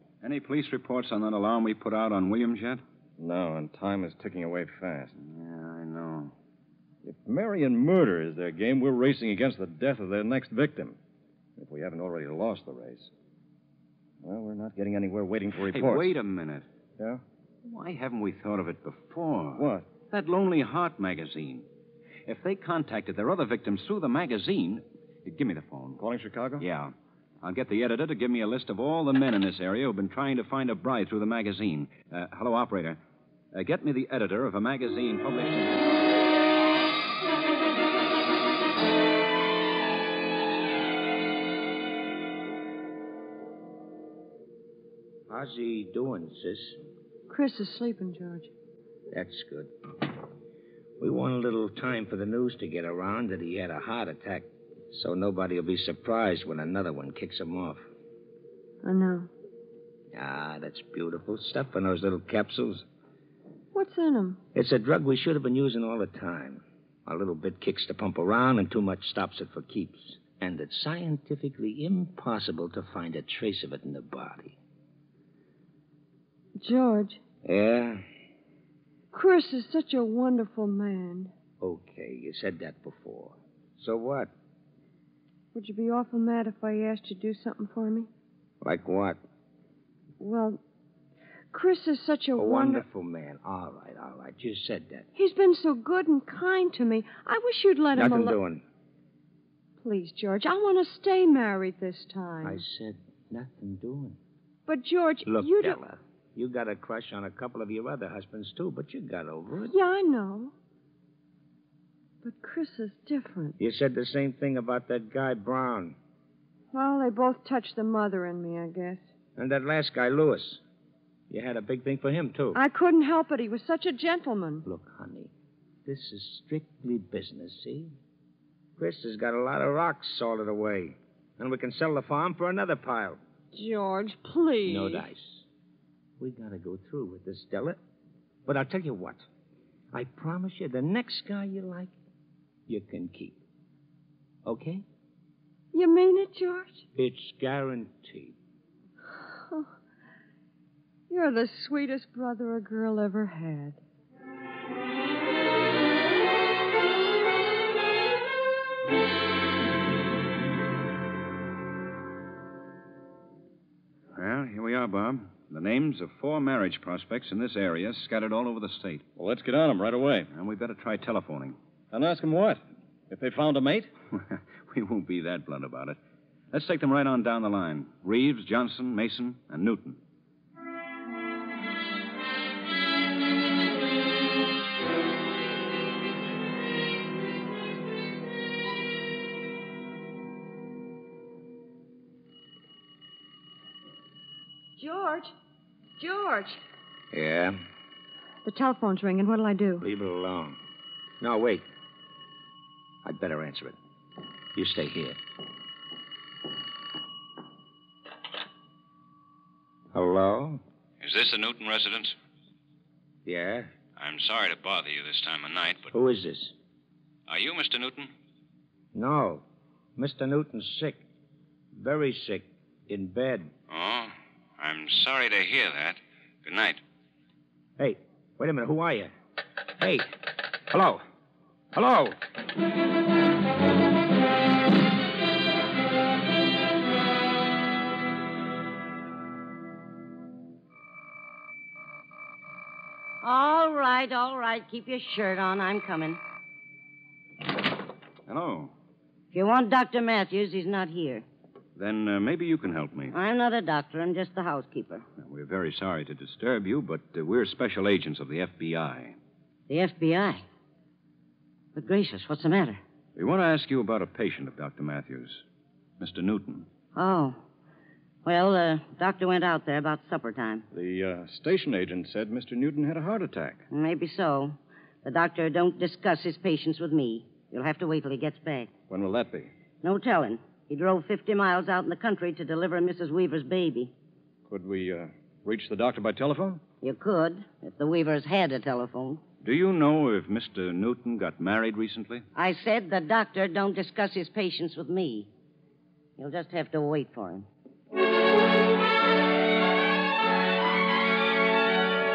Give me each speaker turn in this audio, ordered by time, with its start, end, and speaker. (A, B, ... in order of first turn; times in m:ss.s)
0:00.2-0:02.8 A
0:03.2-0:05.1 B
0:05.2-0:06.3 A
0:07.0-0:11.0 B
0:11.6-0:13.1 B
0:14.2-0:16.1 B
0:15.6-0:16.6 A
0:17.6-0:21.6 A
0:19.6-0:19.9 B
0:22.3-0:26.0 A
0:26.0-0:26.7 B
0:26.6-0:33.0 A
0:33.5-0:36.0 A
0:45.3-0:46.8 C
0:47.3-0:48.5 D
0:49.1-0:49.7 C
0:51.0-0:57.8 C
0:58.8-0:59.3 D
1:00.1-1:02.8 C
1:03.7-1:04.4 D
1:04.5-1:14.6 C
1:16.6-1:17.2 D
1:17.4-1:18.0 C
1:19.1-1:21.3 D
1:21.6-1:24.3 C
1:25.5-1:28.1 D
1:28.6-1:29.2 C
1:30.2-1:30.6 D
1:31.5-1:32.8 D
1:32.4-1:35.1 C
1:35.2-1:38.4 D
1:38.0-1:38.6 C
1:39.8-1:42.6 D
1:42.4-1:44.2 C
1:44.7-1:45.8 D
1:45.3-1:49.7 C
1:49.7-1:50.5 D
1:52.2-1:53.6 D
1:53.6-1:56.0 C
1:56.7-1:59.0 D
1:59.4-2:00.6 C
2:01.3-2:02.6 C
2:02.5-2:04.7 D
2:04.6-2:05.3 C
2:05.9-2:07.9 C
2:08.8-2:13.2 C
2:13.5-2:15.1 D
2:14.7-2:15.4 C
2:16.2-2:17.8 C
2:18.5-2:19.2 C
2:19.9-2:21.9 C
2:22.7-2:23.4 C
2:24.4-2:24.8 C
2:25.7-2:26.8 D
2:27.0-2:28.4 C
2:31.1-2:33.8 D
2:44.1-2:49.0 A
2:49.2-2:50.3 B
2:50.3-2:51.6 A
2:51.9-2:53.9 B
2:54.2-2:56.0 A
2:56.5-3:00.0 A
3:14.8-3:15.3 D
3:16.0-3:16.6 D
3:17.1-3:17.6 C
3:18.4-3:19.8 D
3:19.8-3:20.6 C
3:21.2-3:21.6 C
3:23.0-3:23.8 C
3:24.6-3:25.2 C
3:29.9-3:30.6 C
3:31.0-3:32.2 A
3:33.3-3:33.7 C
3:34.0-3:35.9 A
3:35.9-3:36.5 C
3:37.3-3:38.1 A
3:38.9-3:39.4 C
3:40.0-3:41.0 C
3:41.8-3:43.5 C
3:43.7-3:46.8 A
3:47.8-3:49.1 C
3:49.8-3:51.0 C
3:51.7-3:52.2 C
4:03.2-4:06.2 E
4:08.3-4:08.7 A
4:09.3-4:11.2 E
4:11.8-4:13.2 A
4:13.1-4:15.0 E
4:15.2-4:19.2 A
4:19.7-4:20.4 E
4:21.8-4:22.8 E
4:23.2-4:25.4 A
4:26.0-4:26.7 A
4:27.0-4:27.4 E
4:28.2-4:30.6 E
4:30.7-4:33.6 B
4:33.7-4:38.7 E
4:38.9-4:39.5 B
4:39.8-4:43.9 E
4:44.5-4:46.6 B
4:46.8-4:49.2 E
4:49.4-4:52.2 A
4:52.4-4:55.3 E
4:56.2-4:57.5 E